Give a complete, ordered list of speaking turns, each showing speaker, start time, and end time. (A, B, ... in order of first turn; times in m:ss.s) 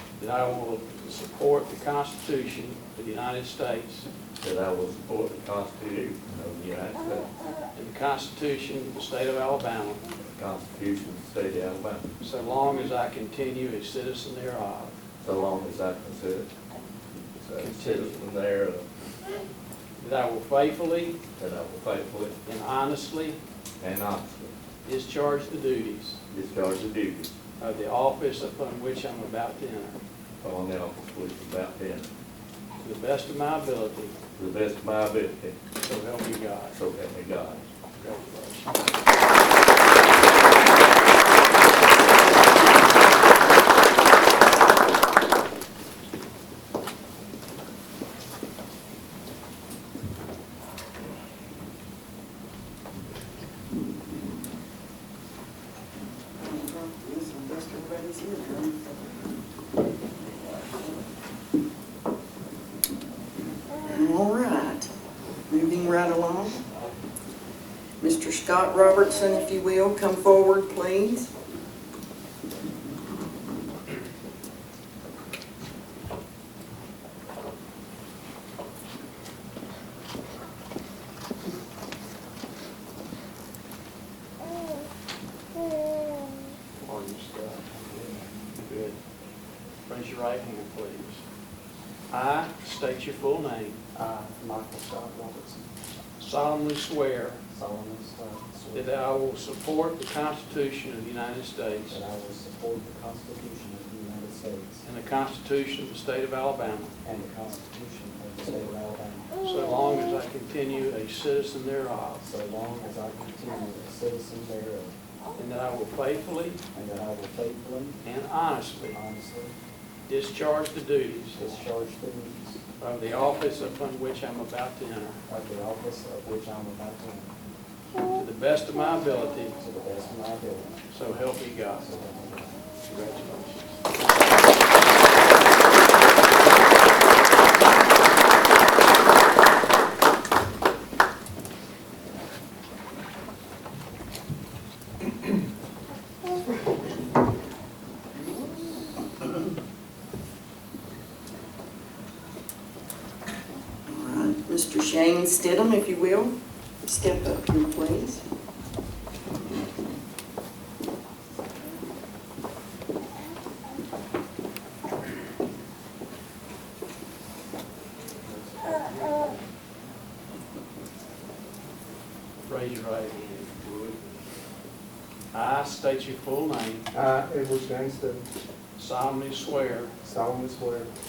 0:00.2-0:04.1 A
0:04.4-0:07.3 B
0:07.8-0:10.0 A
0:10.3-0:12.1 B
0:12.2-0:14.9 A
0:15.2-0:16.5 B
0:17.4-0:18.8 B
0:17.6-0:18.2 A
0:20.0-0:21.2 A
0:21.4-0:22.4 B
0:22.4-0:23.4 A
0:23.8-0:24.6 B
0:24.9-0:26.2 A
0:26.3-0:27.3 B
0:27.6-0:30.0 A
0:30.4-0:32.1 B
0:32.8-0:34.1 A
0:34.4-0:35.6 B
0:35.8-0:36.8 A
0:36.7-0:37.6 B
0:38.0-0:38.7 A
0:56.4-0:58.9 C
1:00.4-1:00.7 C
1:03.8-1:04.9 C
1:05.5-1:06.6 C
1:08.0-1:11.3 C
1:26.8-1:27.7 A
1:27.8-1:28.3 D
1:28.5-1:29.0 A
1:29.9-1:31.2 A
1:32.1-1:33.8 A
1:33.9-1:35.6 D
1:36.2-1:37.4 A
1:37.5-1:38.9 D
1:38.7-1:42.0 A
1:41.9-1:44.9 D
1:44.8-1:46.9 A
1:47.0-1:49.3 D
1:49.4-1:52.2 A
1:52.2-1:55.0 D
1:55.4-1:56.6 A
1:56.7-1:58.0 D
1:58.0-1:59.0 A
1:58.9-1:59.6 D
2:00.1-2:01.4 A
2:01.4-2:02.6 D
2:02.8-2:05.2 A
2:05.3-2:07.3 D
2:08.0-2:09.6 A
2:09.6-2:11.1 D
2:10.9-2:11.8 A
2:11.7-2:12.6 D
2:12.8-2:13.8 A
2:33.9-2:38.2 C
2:48.3-2:49.4 D
2:52.4-2:53.2 A
2:55.3-2:56.8 A
2:56.9-2:58.3 E
2:58.8-2:59.9 A
3:00.0-3:00.9 E